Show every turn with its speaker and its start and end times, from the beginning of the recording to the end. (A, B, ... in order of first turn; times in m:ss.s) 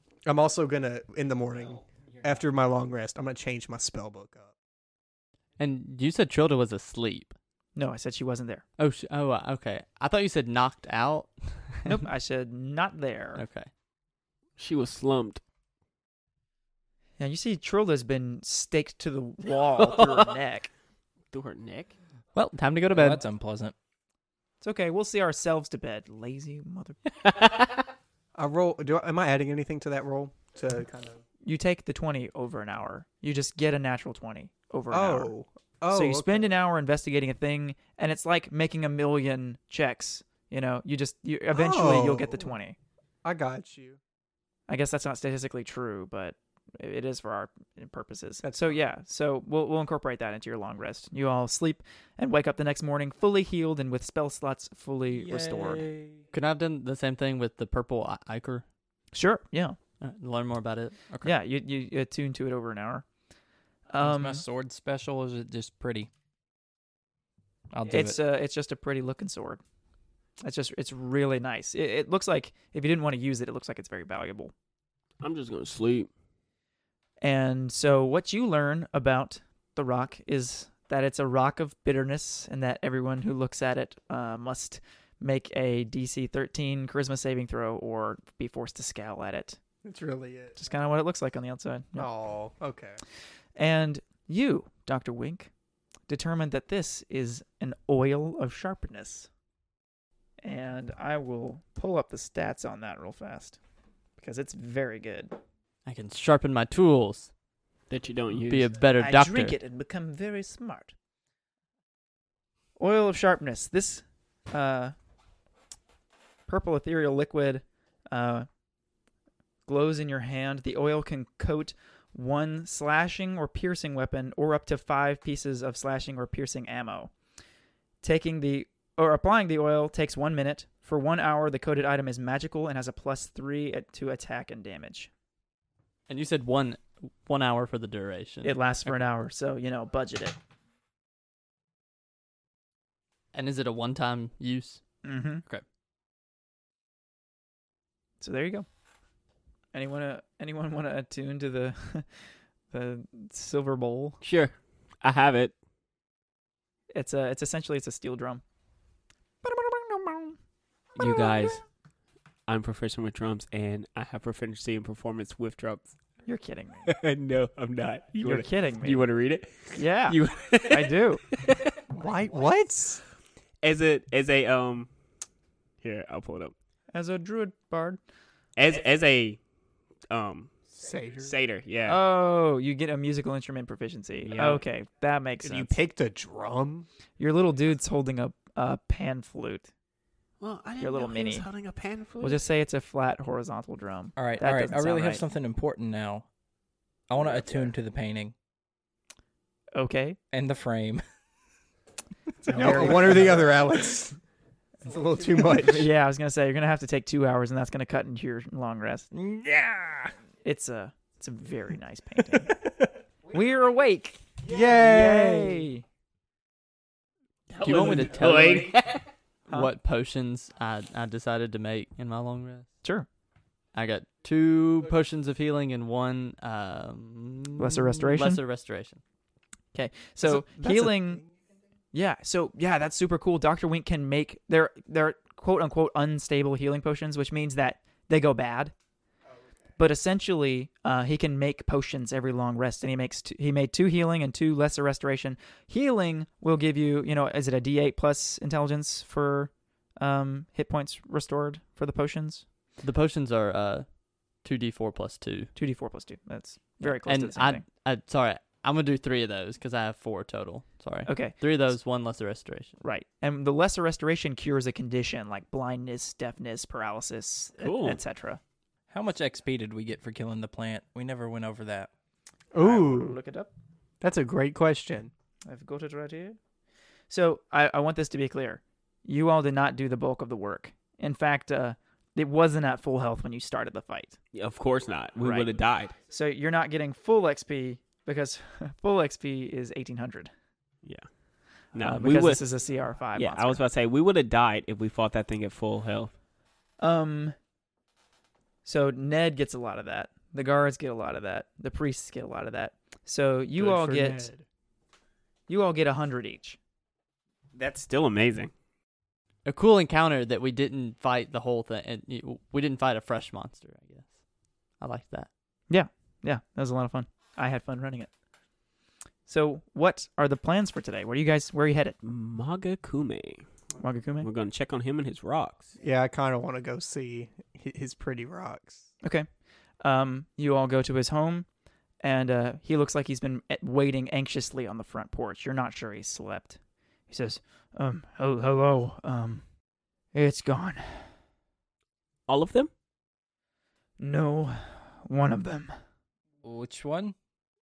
0:00.2-0:04.5 A
0:05.6-0:07.3 B
0:07.7-0:08.6 C
0:08.8-0:12.0 B
0:11.8-0:13.4 C
0:13.4-0:13.7 B
0:14.6-0:15.4 D
0:17.2-0:20.7 C
0:19.8-0:20.3 D
0:21.3-0:21.9 D
0:22.3-0:23.2 B
0:22.9-0:23.7 E
0:24.6-0:27.0 C
0:27.2-0:27.8 D
0:28.3-0:31.2 A
0:31.4-0:35.3 C
0:34.9-0:36.5 A
0:35.9-0:42.8 C
0:41.5-0:42.5 A
0:43.2-0:44.0 A
0:44.7-0:55.8 C
0:48.4-0:48.8 A
0:55.1-0:56.3 E
0:56.3-0:58.6 B
0:59.1-0:59.8 C
1:00.0-1:01.3 B
1:01.2-1:03.0 C
1:03.9-1:04.4 C
1:04.0-1:06.1 E
1:07.7-1:08.2 E
1:07.9-1:09.6 C
1:10.4-1:14.5 C
1:15.2-1:16.1 D
1:17.2-1:29.6 C
1:29.8-1:30.6 A
1:30.6-1:32.1 C
1:32.0-1:33.0 A
1:33.6-1:35.5 C
1:36.1-1:39.3 C
1:40.4-1:43.6 C
1:44.2-1:45.3 C
1:45.8-1:47.3 B
1:47.9-1:48.7 D
1:48.3-1:49.6 B
1:49.0-1:50.9 C
1:52.8-1:54.9 C
1:56.5-1:58.5 C
1:59.6-2:07.1 C
2:08.0-2:15.1 C
2:16.1-2:19.0 B
2:18.4-2:20.4 C
2:23.3-2:24.8 B
2:25.0-2:25.4 C
2:28.2-2:28.6 C
2:29.7-2:34.2 C
2:34.2-2:35.5 D
2:36.9-2:38.4 C
2:39.4-2:40.4 C
2:41.0-2:41.6 D
2:42.5-2:45.9 D
2:46.2-2:46.9 C
2:46.9-2:51.7 D
2:48.2-2:49.0 C
2:49.7-2:51.2 C
2:51.9-2:53.0 A
2:53.6-2:54.9 D
2:55.8-2:56.5 D
2:56.9-2:58.0 C
2:58.6-2:59.4 D
3:00.1-3:00.5 D
3:00.7-3:01.3 A
3:01.2-3:02.0 D
3:01.8-3:05.8 C
3:04.2-3:04.6 D
3:05.4-3:06.9 A
3:07.2-3:09.7 C
3:10.4-3:12.4 D
3:10.8-3:11.5 C
3:12.2-3:15.2 C
3:14.2-3:16.3 E
3:17.1-3:18.3 E
3:19.7-3:20.2 C
3:20.3-3:21.0 E
3:22.4-3:23.4 E
3:22.5-3:24.2 A
3:22.5-3:23.3 C
3:24.8-3:25.9 A
3:25.5-3:29.1 C
3:29.1-3:30.1 E
3:30.4-3:32.6 C
3:33.3-3:35.8 C
3:34.5-3:35.6 A
3:37.5-3:39.0 D
3:37.6-3:38.7 B
3:37.6-3:38.6 C
3:37.8-3:38.2 E
3:39.5-3:42.7 B
3:43.7-3:49.0 B
3:47.6-3:48.4 C
3:49.7-3:51.2 C
3:50.2-3:51.3 A
3:51.9-3:58.7 C
3:59.8-4:12.4 C
4:12.8-4:13.9 B
4:14.4-4:15.5 B
4:15.5-4:17.6 C
4:16.8-4:22.8 B
4:21.0-4:21.7 C
4:22.8-4:28.4 C
4:27.6-4:28.0 D
4:28.9-4:31.9 E
4:32.5-4:33.2 A
4:32.6-4:33.5 C
4:34.0-4:35.1 A
4:35.4-4:36.4 C
4:37.1-4:44.2 C
4:44.3-4:45.9 D
4:45.2-4:50.3 C
4:51.7-4:52.4 D
4:51.8-4:53.6 C
4:53.1-4:56.1 D
4:56.8-4:57.3 C
4:58.6-5:04.3 C
5:03.5-5:04.4 A
5:05.5-5:06.6 C
5:07.5-5:08.5 D
5:09.4-5:14.1 B
5:14.8-5:15.3 B
5:15.7-5:18.1 C
5:19.3-5:22.0 C
5:22.0-5:23.4 D
5:23.8-5:24.3 C
5:24.2-5:25.7 D
5:25.8-5:28.8 A
5:29.0-5:29.3 C
5:29.8-5:31.5 C
5:32.0-5:36.6 C
5:37.1-5:39.4 C
5:40.1-5:41.1 C
5:42.3-5:42.7 D
5:44.0-5:45.7 C
5:46.4-5:47.1 E